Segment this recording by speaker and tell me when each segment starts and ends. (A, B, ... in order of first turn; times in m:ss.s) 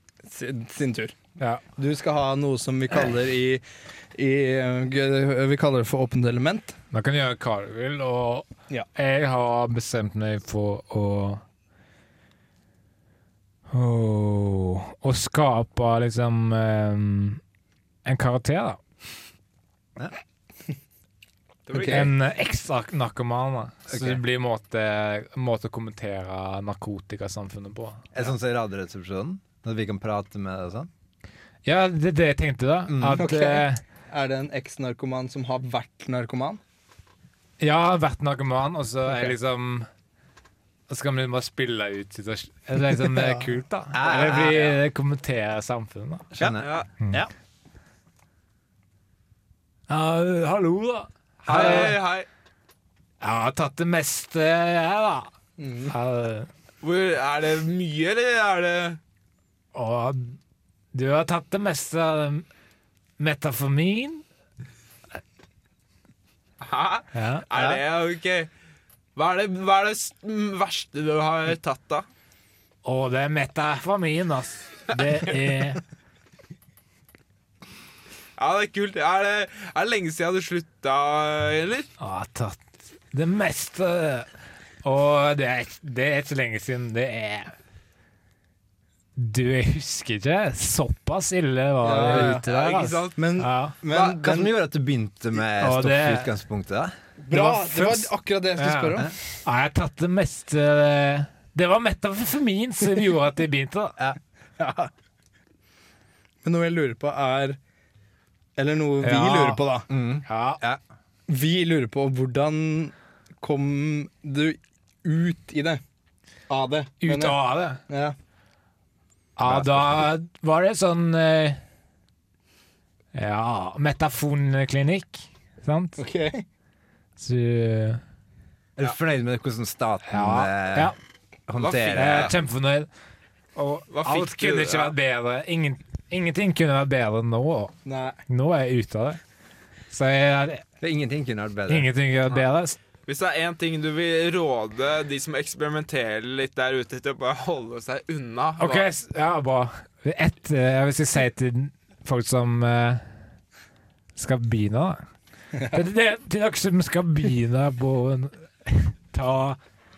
0:00.3-0:01.2 A
0:01.4-0:01.6 B
0:01.8-0:06.8 A
0:06.9-0:11.4 B
0:13.7-0:17.4 B
0:18.0-0:18.8 B
0:21.7-0:22.1 C
0:21.7-0:22.1 A
0:21.9-0:28.1 B
0:23.9-0:24.2 D
0:28.1-0:30.9 D
0:31.6-0:33.8 B
0:32.9-0:33.3 D
0:33.1-0:36.6 A
0:37.6-0:39.9 B
0:40.9-0:46.3 B
0:43.9-0:44.8 D
0:46.3-0:46.7 D
0:46.4-0:47.3 A
0:46.6-0:46.9 C
0:49.9-0:52.0 B
0:51.4-0:51.9 D
0:51.5-0:52.3 C
0:53.2-0:55.3 B
0:55.6-0:55.9 A
0:55.9-0:56.5 B
0:56.8-0:59.0 C
0:59.7-1:00.4 B
1:00.9-1:02.5 B
1:03.2-1:04.2 B
1:06.6-1:08.5 C
1:07.1-1:07.5 B
1:09.2-1:12.1 C
1:12.8-1:15.8 B
1:18.4-1:21.9 C
1:22.0-1:24.3 B
1:24.8-1:27.5 B
1:29.2-1:33.8 B
1:31.8-1:32.5 A
1:32.1-1:33.3 C
1:33.2-1:34.5 A
1:33.9-1:34.2 C
1:33.9-1:36.9 D
1:35.6-1:36.3 B
1:37.2-1:39.1 A
1:37.3-1:44.0 B
1:44.6-1:44.9 A
1:46.4-1:47.6 A
1:48.6-1:49.9 A
1:49.0-1:49.6 B
1:49.9-1:50.8 D
1:50.3-1:50.6 B
1:51.3-1:55.8 A
1:56.5-1:58.2 A
1:57.0-1:57.8 B
1:59.4-2:01.6 B
1:59.4-1:59.8 D
2:03.1-2:06.0 B
2:06.0-2:06.4 A
2:07.2-2:08.0 B
2:08.8-2:10.9 D
2:10.1-2:11.0 B
2:11.5-2:12.4 D
2:11.6-2:12.3 C
2:12.0-2:12.9 B
2:13.6-2:17.8 B
2:13.9-2:15.0 C
2:17.8-2:18.2 A
2:18.3-2:19.2 B
2:19.9-2:20.6 B
2:20.8-2:21.9 D
2:21.7-2:22.8 B
2:23.1-2:28.9 C
2:28.6-2:33.0 B
2:34.2-2:35.0 B
2:35.6-2:39.6 B